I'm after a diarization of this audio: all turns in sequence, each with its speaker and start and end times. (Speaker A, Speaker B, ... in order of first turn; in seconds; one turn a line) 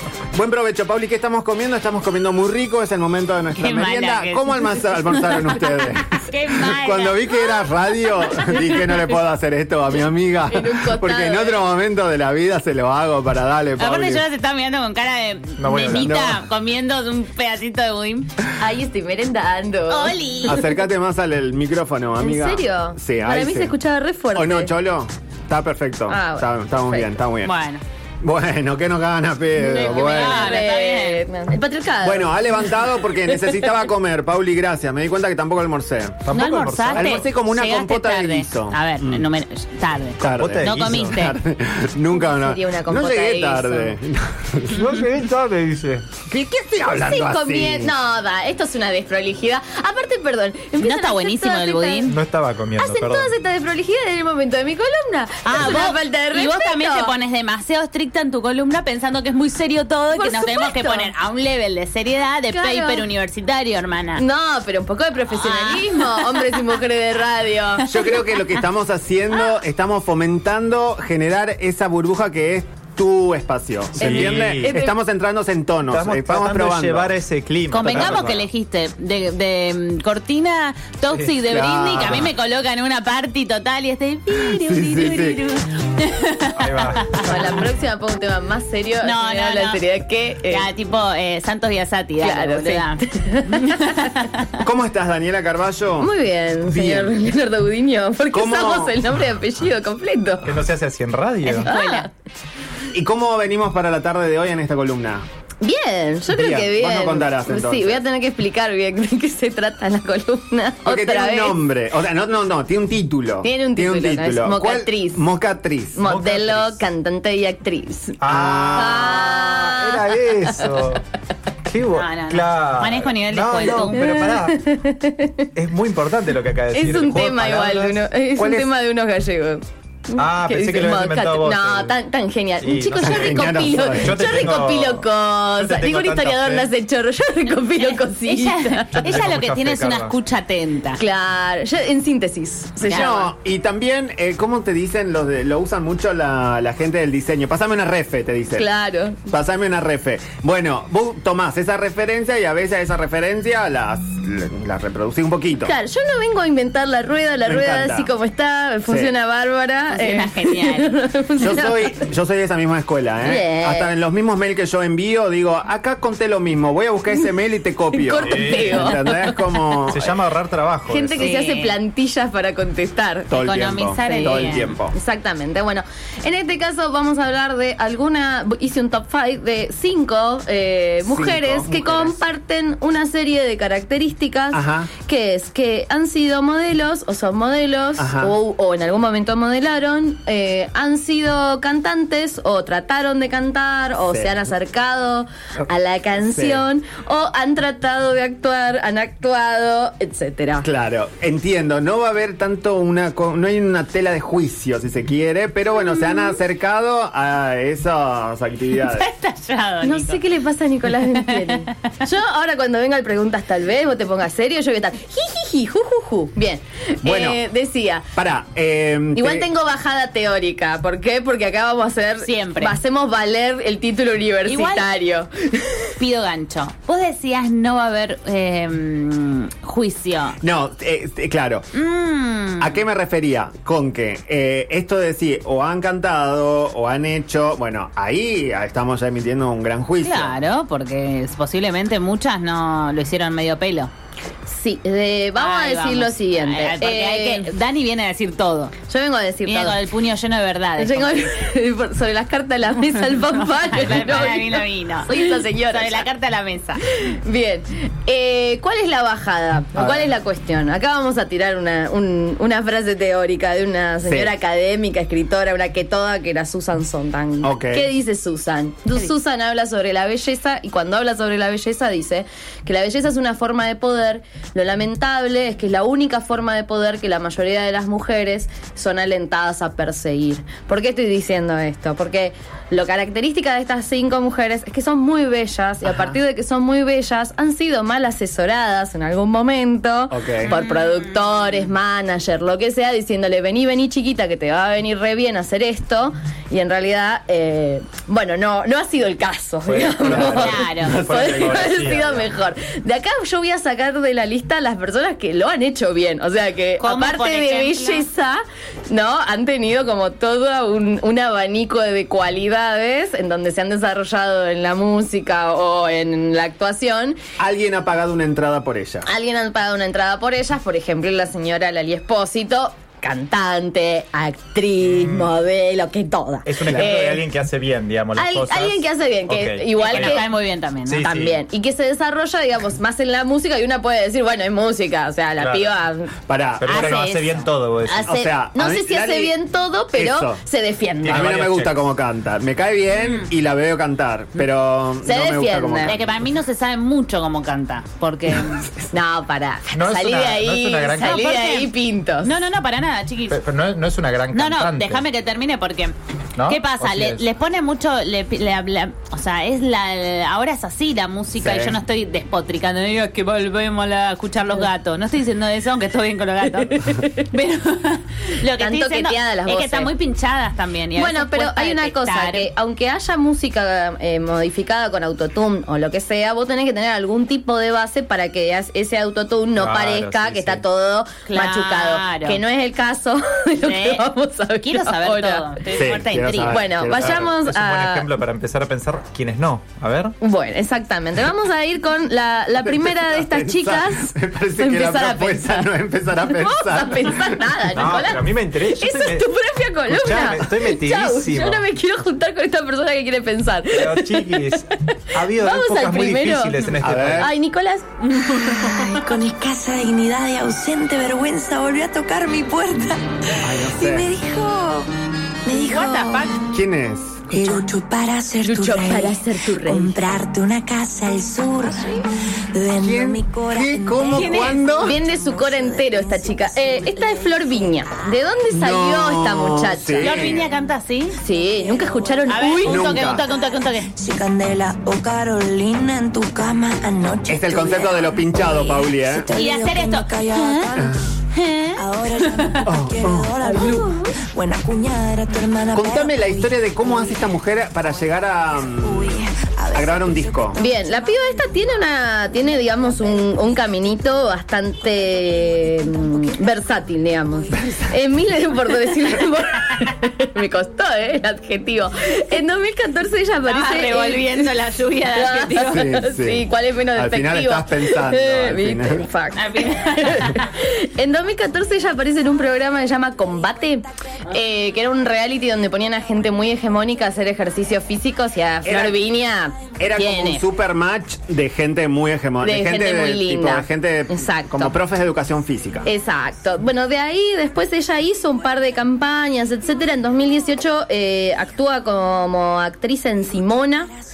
Speaker A: 0.3-14.2
Speaker B: 3.6-7.6
Speaker C: 10.5-11.6
Speaker B: 13.8-18.3
Speaker D: 15.6-16.1
Speaker A: 15.9-16.4
Speaker C: 18.6-20.2
Speaker B: 19.9-20.7
Speaker A: 20.4-23.7
Speaker C: 22.2-24.7
Speaker A: 24.3-27.5
Speaker C: 26.1-27.1
Speaker B: 27.4-27.8
Speaker A: 28.2-30.6
Speaker B: 29.6-31.2
Speaker C: 29.8-32.5
Speaker A: 32.0-36.2
Speaker C: 33.3-33.6
Speaker D: 36.2-37.2
Speaker B: 36.3-41.4
Speaker A: 36.9-39.3
Speaker A: 40.2-44.9
Speaker D: 40.2-41.2
Speaker C: 42.2-44.0
Speaker D: 44.7-46.1
Speaker C: 46.3-52.1
Speaker A: 46.7-47.9
Speaker B: 50.8-52.1
Speaker D: 52.1-53.3
Speaker C: 52.8-57.1
Speaker B: 55.5-64.2
Speaker C: 60.1-61.1
Speaker C: 62.5-63.0
Speaker C: 64.2-67.9
Speaker B: 65.3-66.7
Speaker A: 67.8-77.2
Speaker C: 74.0-74.9
Speaker D: 74.0-74.7
Speaker D: 75.9-78.5
Speaker B: 77.7-87.5
Speaker A: 77.8-78.4
Speaker A: 81.5-82.3
Speaker D: 82.0-82.3
Speaker A: 84.5-85.4
Speaker D: 86.6-87.4
Speaker C: 87.2-90.7
Speaker B: 89.0-89.8
Speaker B: 90.4-93.0
Speaker C: 92.2-94.2
Speaker B: 93.5-94.2
Speaker A: 94.6-96.1
Speaker C: 96.0-100.5
Speaker A: 96.6-97.1
Speaker A: 98.3-99.0
Speaker D: 100.4-101.7
Speaker B: 101.5-102.1
Speaker C: 101.6-102.1
Speaker A: 102.9-105.2
Speaker C: 105.6-111.6
Speaker A: 106.3-108.0
Speaker A: 110.8-116.0
Speaker C: 113.4-115.2
Speaker C: 116.0-120.6
Speaker D: 116.0-116.8
Speaker D: 118.2-121.0
Speaker A: 118.3-119.1
Speaker D: 121.7-124.6
Speaker B: 121.9-124.1
Speaker C: 123.7-125.5
Speaker D: 125.5-128.1
Speaker C: 126.7-139.2
Speaker A: 128.3-128.7
Speaker D: 130.2-132.0
Speaker D: 132.6-136.7
Speaker A: 133.0-134.3
Speaker B: 137.9-141.0
Speaker D: 138.9-140.1
Speaker C: 141.0-143.3
Speaker A: 142.8-148.7
Speaker B: 142.9-143.2
Speaker C: 148.6-149.2
Speaker A: 149.3-155.7
Speaker C: 155.6-162.0
Speaker A: 157.4-158.1
Speaker A: 158.9-159.1
Speaker B: 159.9-161.0
Speaker A: 161.4-170.1
Speaker C: 163.2-163.9
Speaker C: 167.9-169.7
Speaker D: 168.2-168.9
Speaker D: 169.9-171.3
Speaker C: 170.9-173.3
Speaker B: 171.2-171.7
Speaker A: 173.3-174.9
Speaker B: 173.4-174.7
Speaker C: 174.0-200.7
Speaker A: 181.0-182.2
Speaker A: 184.5-184.9
Speaker A: 188.0-188.3
Speaker A: 194.1-194.4
Speaker A: 196.2-196.6
Speaker A: 200.6-209.1
Speaker B: 208.8-210.2
Speaker C: 209.8-218.1
Speaker B: 210.9-211.6
Speaker A: 217.0-217.4
Speaker A: 218.2-219.5
Speaker C: 219.1-225.9
Speaker B: 222.2-222.8
Speaker B: 224.5-224.9
Speaker B: 226.0-230.4
Speaker A: 230.4-231.7
Speaker B: 231.7-232.8
Speaker A: 232.6-240.3
Speaker B: 240.0-243.9
Speaker C: 244.5-247.5
Speaker B: 245.3-248.7
Speaker C: 248.9-249.8
Speaker B: 249.4-251.3
Speaker C: 250.8-256.0
Speaker B: 253.2-256.8
Speaker C: 257.0-317.2
Speaker A: 259.7-260.1
Speaker A: 264.0-264.3
Speaker A: 267.4-267.9
Speaker A: 285.8-286.2
Speaker A: 290.1-290.5
Speaker B: 290.4-291.6
Speaker D: 299.6-302.3
Speaker B: 300.2-301.0
Speaker A: 300.8-301.3
Speaker B: 306.8-308.1
Speaker A: 317.4-319.1
Speaker C: 319.1-327.2
Speaker D: 324.8-325.3
Speaker D: 326.4-330.2
Speaker A: 326.6-326.9
Speaker C: 328.1-330.2
Speaker B: 329.8-331.0
Speaker D: 330.9-331.4
Speaker C: 331.0-336.1
Speaker D: 335.4-335.7
Speaker A: 336.3-337.0
Speaker D: 336.6-338.1
Speaker B: 336.7-337.5
Speaker C: 337.8-341.3
Speaker A: 338.0-339.3
Speaker A: 339.9-340.4
Speaker D: 341.0-341.8
Speaker A: 341.0-346.1
Speaker B: 342.9-343.3
Speaker C: 345.0-345.9
Speaker B: 345.8-348.7
Speaker C: 348.9-352.3
Speaker D: 349.7-351.2
Speaker B: 351.0-353.4
Speaker D: 353.3-355.0
Speaker B: 354.3-355.9
Speaker D: 356.4-357.2
Speaker B: 356.5-372.5
Speaker A: 361.4-361.8
Speaker C: 366.8-367.3
Speaker C: 368.6-369.9
Speaker C: 370.9-385.5
Speaker D: 379.6-380.6
Speaker B: 381.3-382.4
Speaker B: 383.6-384.1
Speaker B: 384.6-386.6
Speaker A: 385.8-387.3
Speaker C: 386.5-388.1
Speaker D: 386.9-390.1
Speaker C: 390.2-395.7
Speaker A: 392.6-397.6
Speaker C: 396.3-407.9
Speaker D: 397.7-399.3
Speaker D: 399.9-401.6
Speaker D: 403.7-407.3
Speaker A: 406.8-407.3
Speaker B: 408.0-409.0
Speaker E: 408.1-414.9
Speaker A: 413.4-414.1
Speaker E: 415.4-416.4
Speaker B: 415.5-416.4
Speaker A: 416.5-417.4
Speaker E: 417.3-427.5
Speaker C: 418.4-420.0
Speaker A: 422.8-425.0
Speaker B: 424.1-424.6
Speaker C: 424.8-430.3
Speaker A: 428.5-430.5
Speaker B: 430.0-431.2
Speaker C: 431.2-433.1
Speaker B: 432.3-433.9
Speaker A: 432.6-433.2
Speaker E: 433.9-441.0
Speaker A: 437.3-439.3
Speaker B: 439.3-440.7
Speaker A: 440.8-441.0
Speaker B: 441.3-442.6
Speaker E: 441.8-447.2
Speaker A: 442.6-443.8
Speaker A: 445.7-449.2
Speaker E: 448.8-451.2
Speaker A: 449.7-450.6
Speaker C: 450.6-464.6
Speaker A: 457.6-457.9
Speaker B: 463.5-466.0
Speaker C: 465.1-480.4
Speaker A: 465.6-469.1
Speaker B: 469.3-470.5
Speaker A: 478.6-479.0
Speaker A: 479.8-485.9
Speaker C: 482.4-484.7
Speaker C: 485.8-493.9